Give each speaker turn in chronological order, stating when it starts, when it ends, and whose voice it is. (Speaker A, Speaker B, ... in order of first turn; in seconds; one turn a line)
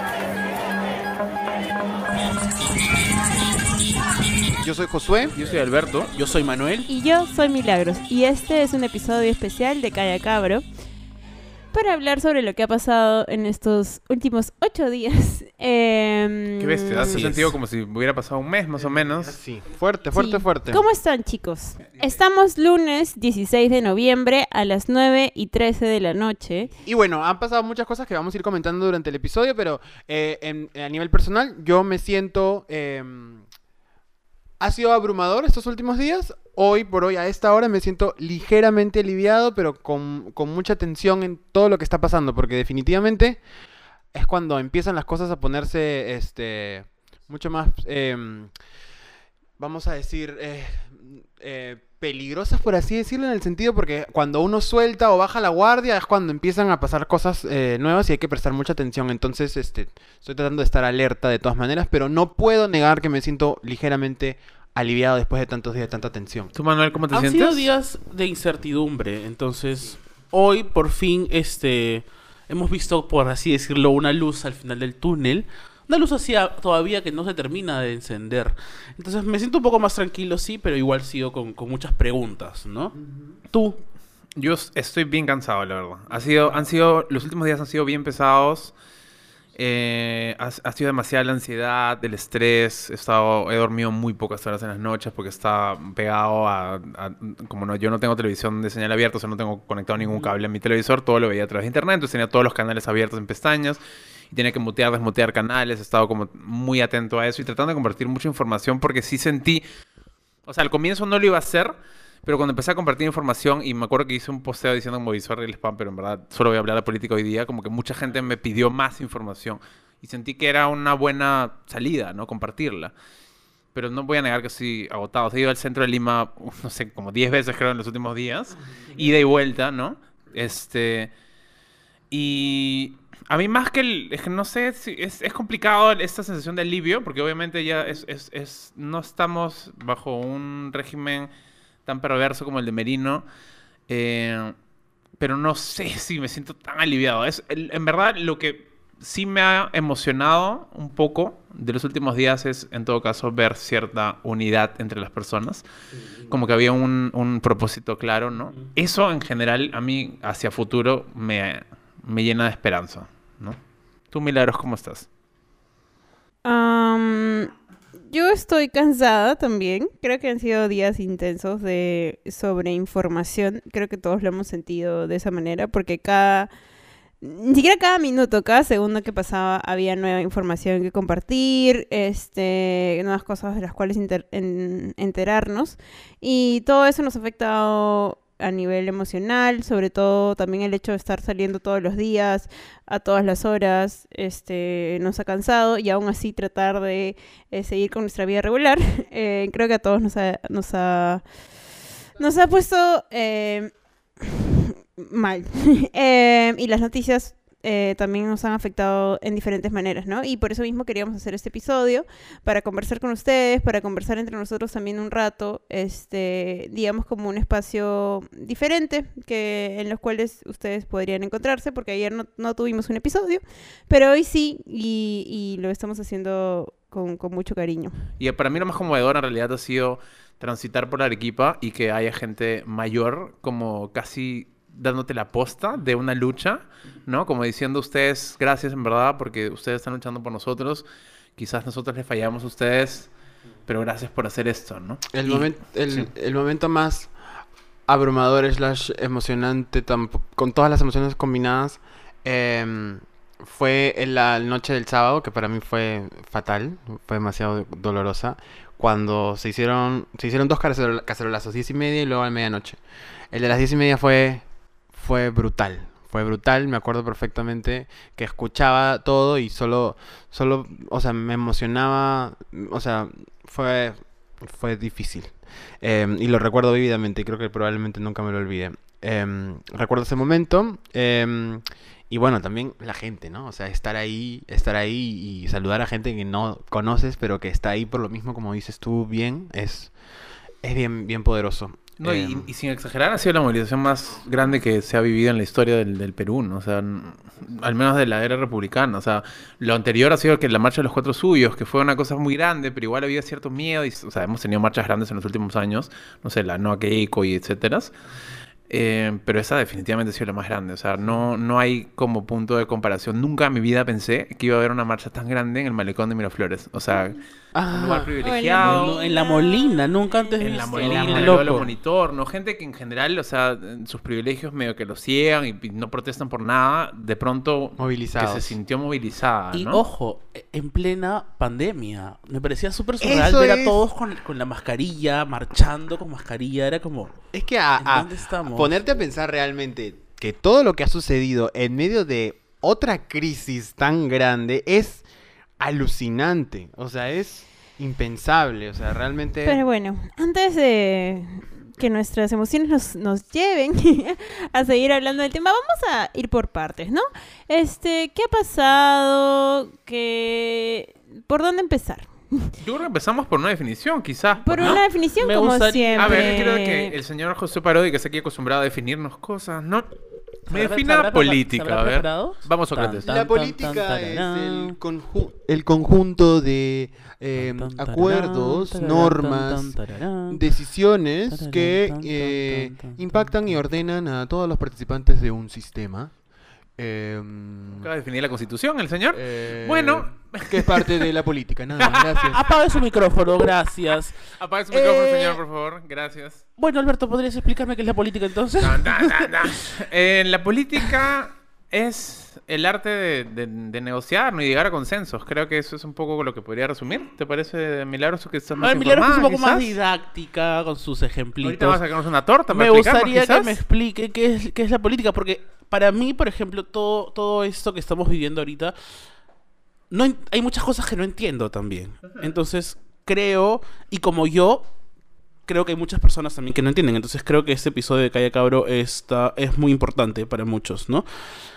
Speaker A: 4.5-5.3
Speaker B: 5.3-6.1
Speaker C: 6.1-6.9
Speaker D: 6.9-10.6
Speaker D: 11.7-17.2
Speaker B: 16.6-19.3
Speaker A: 17.1-17.4
Speaker C: 17.1-17.5
Speaker A: 19.2-20.8
Speaker D: 20.1-26.7
Speaker A: 26.8-33.5
Speaker A: 34.6-43.4
Speaker A: 44.1-48.5
Speaker A: 49.6-66.5
Speaker B: 66.5-67.7
Speaker C: 67.1-82.9
Speaker A: 83.0-83.3
Speaker C: 83.5-83.8
Speaker B: 84.3-88.7
Speaker B: 89.5-103.8
Speaker B: 104.3-109.6
Speaker B: 110.5-122.9
Speaker B: 123.7-131.1
Speaker B: 132.1-141.3
Speaker B: 141.8-143.2
Speaker B: 143.9-144.5
Speaker B: 145.2-155.6
Speaker B: 156.3-163.6
Speaker B: 164.1-165.1
Speaker D: 166.4-167.5
Speaker D: 168.1-176.5
Speaker D: 177.2-201.2
Speaker D: 202.2-228.1
Speaker B: 228.2-240.8
Speaker B: 241.4-243.1
Speaker B: 243.7-246.1
Speaker A: 245.1-247.1
Speaker A: 247.9-262.8
Speaker A: 263.3-289.9
Speaker A: 290.6-292.5
Speaker B: 292.0-307.9
Speaker B: 308.7-318.9
Speaker A: 317.5-318.2
Speaker D: 318.2-320.7
Speaker C: 318.6-321.7
Speaker B: 320.4-329.8
Speaker A: 320.8-321.7
Speaker A: 327.8-328.6
Speaker C: 329.5-337.2
Speaker A: 333.0-333.8
Speaker A: 337.3-345.0
Speaker C: 337.8-338.7
Speaker A: 345.6-349.6
Speaker D: 349.4-362.5
Speaker B: 362.6-364.8
Speaker D: 364.4-367.0
Speaker C: 364.6-366.6
Speaker B: 366.0-369.9
Speaker B: 370.5-373.1
Speaker C: 370.5-374.8
Speaker A: 373.0-386.1
Speaker C: 377.4-380.4
Speaker C: 381.3-383.3
Speaker A: 386.8-387.9
Speaker B: 387.8-391.1
Speaker A: 389.1-392.5
Speaker B: 391.8-392.5
Speaker C: 392.3-395.4
Speaker B: 394.4-396.5
Speaker C: 396.6-399.6
Speaker B: 398.6-409.7
Speaker C: 408.6-411.8
Speaker B: 411.4-413.6
Speaker C: 412.5-418.8
Speaker C: 419.9-424.7
Speaker C: 425.4-431.1